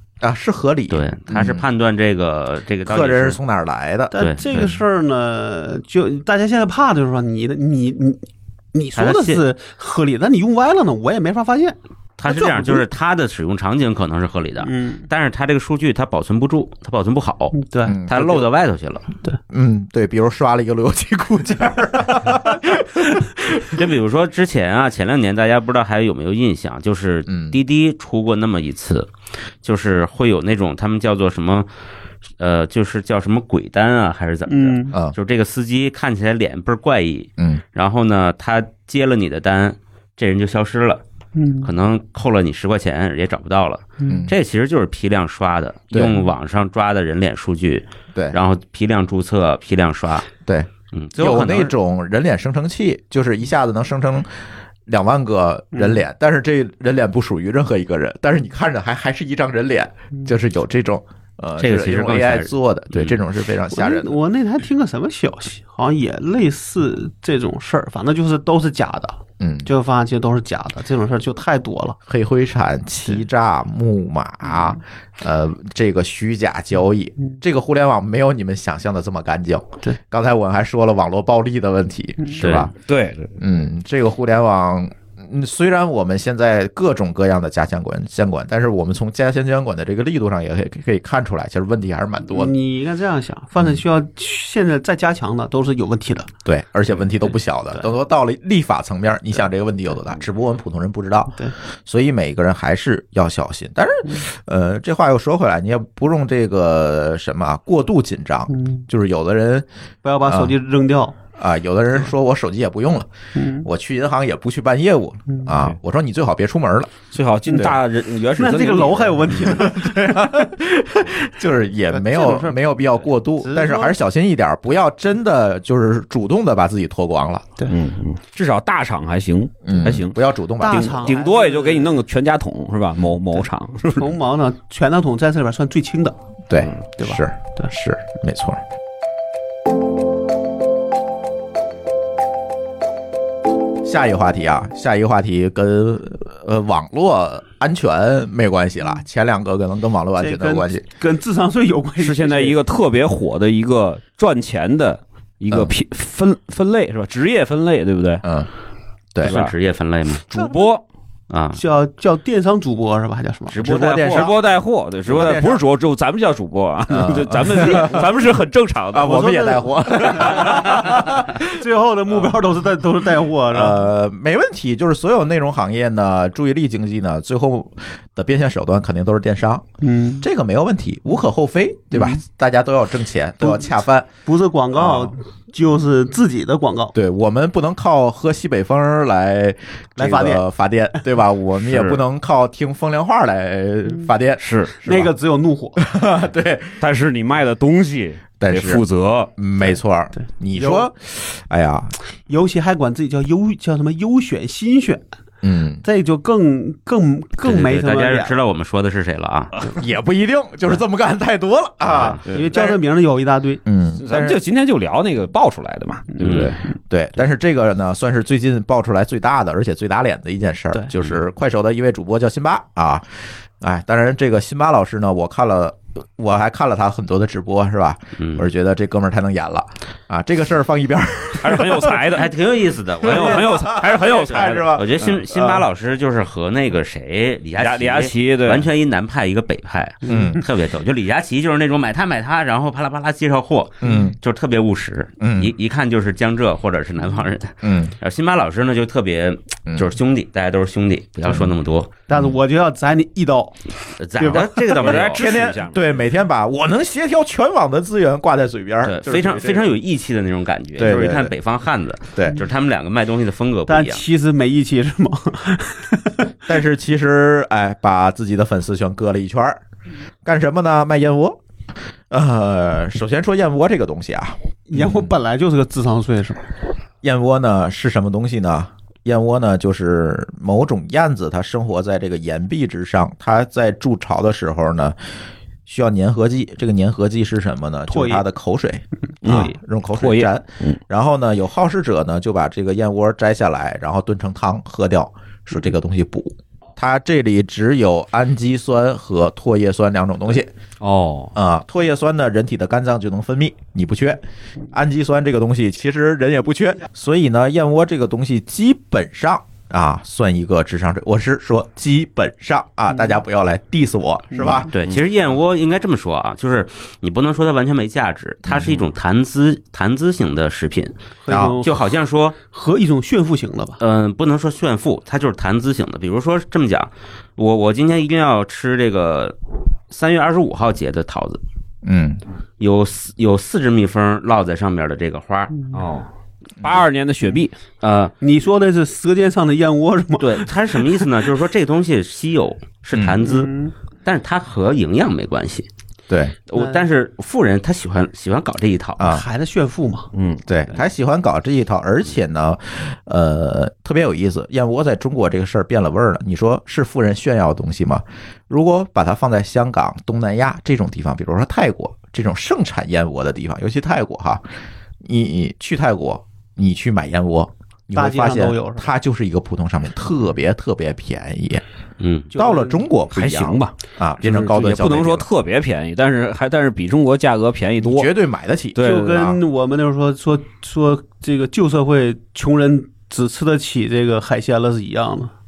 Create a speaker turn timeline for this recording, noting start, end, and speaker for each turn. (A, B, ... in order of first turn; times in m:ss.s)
0:00.2-0:01.7 A
0:00.9-0:03.4 B
0:02.8-0:04.7 A
0:04.1-0:11.8 C
0:04.2-0:04.7 B
0:09.0-0:09.4 B
0:12.2-0:19.1 B
0:12.3-0:12.8 C
0:14.6-0:15.1 C
0:17.5-0:18.0 C
0:17.9-0:18.5 A
0:19.5-0:23.8 A
0:23.7-0:29.1 B
0:27.3-0:27.6 A
0:29.6-0:31.7 B
0:32.4-0:41.0 B
0:34.5-0:35.0 C
0:41.4-0:41.7 C
0:41.6-0:50.3 B
0:44.0-0:44.3 C
0:44.1-0:44.3 A
0:45.9-0:46.2 A
0:50.5-0:54.3 A
0:50.9-0:51.7 B
0:54.9-1:04.2 A
0:55.7-0:56.0 C
1:01.6-1:03.2 B
1:03.7-1:12.0 C
1:09.4-1:09.7 A
1:12.1-1:22.7 A
1:22.4-1:22.7 B
1:22.8-1:23.3 D
1:23.4-1:32.5 A
1:32.3-1:36.3 C
1:36.4-1:49.7 A
1:48.5-1:48.8 C
1:50.0-1:51.2 C
1:50.2-1:50.6 A
1:51.4-1:53.1 A
1:53.4-1:53.7 C
1:53.6-1:57.0 A
1:57.1-1:59.6 D
1:57.4-1:57.8 C
1:58.4-2:00.5 C
1:59.4-2:07.5 A
2:01.9-2:04.0 C
2:07.7-2:14.2 D
2:09.6-2:11.2 A
2:10.6-2:11.9 C
2:13.3-2:16.2 C
2:16.5-2:18.6 A
2:17.0-2:17.7 C
2:23.8-2:30.8 A
2:30.2-2:32.6 C
2:32.0-2:38.2 D
2:35.5-2:35.7 A
2:38.2-2:38.5 A
2:39.2-2:40.3 B
2:39.2-2:39.5 D
2:40.3-2:40.8 D
2:41.3-2:41.6 B
2:41.5-2:43.6 C
2:43.5-2:49.2 D
2:43.6-2:44.4 A
2:43.6-2:44.3 B
2:45.0-2:45.6 A
2:46.9-2:48.1 A
2:47.6-2:47.9 C
2:48.9-2:51.6 A
2:49.0-2:53.8 C
2:53.5-2:59.6 A
2:59.8-3:00.2 C
3:00.2-3:04.1 A
3:01.9-3:02.2 C
3:03.4-3:03.7 C
3:04.2-3:07.0 C
3:04.7-3:05.1 A
3:07.0-3:15.1 A
3:10.0-3:10.4 C
3:11.6-3:12.0 D
3:14.4-3:14.8 D
3:14.8-3:15.8 C
3:15.8-3:16.8 A
3:16.8-3:19.3 D
3:18.4-3:18.8 A
3:19.4-3:21.9 A
3:20.5-3:20.9 C
3:22.3-3:25.0 C
3:25.4-3:25.8 A
3:25.8-3:28.4 C
3:27.4-3:29.7 B
3:29.8-3:32.8 A
3:31.9-3:32.2 B
3:32.0-3:33.6 C
3:33.6-3:34.4 A
3:34.0-3:36.6 D
3:36.2-3:36.5 B
3:36.3-3:52.1 A
3:48.2-3:48.5 B
3:51.4-3:52.3 D
3:52.0-4:11.9 B
3:53.0-3:55.2 D
3:53.0-3:55.6 A
3:57.6-3:58.7 D
4:00.1-4:00.4 C
4:00.1-4:00.4 A
4:03.8-4:04.2 A
4:05.2-4:05.5 A
4:07.6-4:08.0 A
4:12.1-4:14.8 C
4:14.0-4:15.4 B
4:14.7-4:15.9 D
4:15.0-4:19.8 A
4:18.8-4:24.0 B
4:20.8-4:21.3 A
4:22.1-4:22.4 A
4:23.7-4:26.3 C
4:26.5-4:29.6 A
4:30.2-4:31.4 A
4:32.1-4:35.1 A
4:34.7-4:36.5 C
4:37.0-4:45.0 A
4:45.7-5:00.5 A
4:47.9-4:48.2 C
4:49.2-4:49.6 C
4:49.2-4:50.8 D
5:00.8-5:01.3 D
5:01.4-5:14.7 A
5:14.3-5:14.7 C
5:14.7-5:21.0 B
5:18.5-5:18.8 A
5:21.2-5:21.8 C
5:21.3-5:21.6 A
5:21.6-5:22.4 B
5:22.5-5:23.8 C
5:23.8-5:29.4 B
5:29.9-5:31.4 B
5:31.8-5:32.2 A
5:32.6-5:35.5 B
5:35.6-5:35.8 C
5:35.7-5:36.1 D
5:36.6-5:37.6 D
5:37.8-5:38.1 B
5:38.2-5:41.0 C
5:40.2-5:43.5 B
5:42.9-5:43.2 A
5:43.2-5:43.7 C
5:44.0-5:45.7 B
5:46.1-5:46.4 A
5:46.5-5:49.1 B
5:46.5-5:46.8 C
5:49.0-5:49.2 A
5:49.0-5:50.1 C
5:50.1-5:50.4 D
5:50.5-6:04.4 A
6:05.0-6:11.6 A
6:08.0-6:08.9 C
6:12.0-6:12.3 B
6:12.3-6:12.8 C
6:12.4-6:15.3 A
6:13.1-6:18.1 D
6:17.8-6:19.3 A
6:18.8-6:19.4 D
6:18.8-6:25.3 C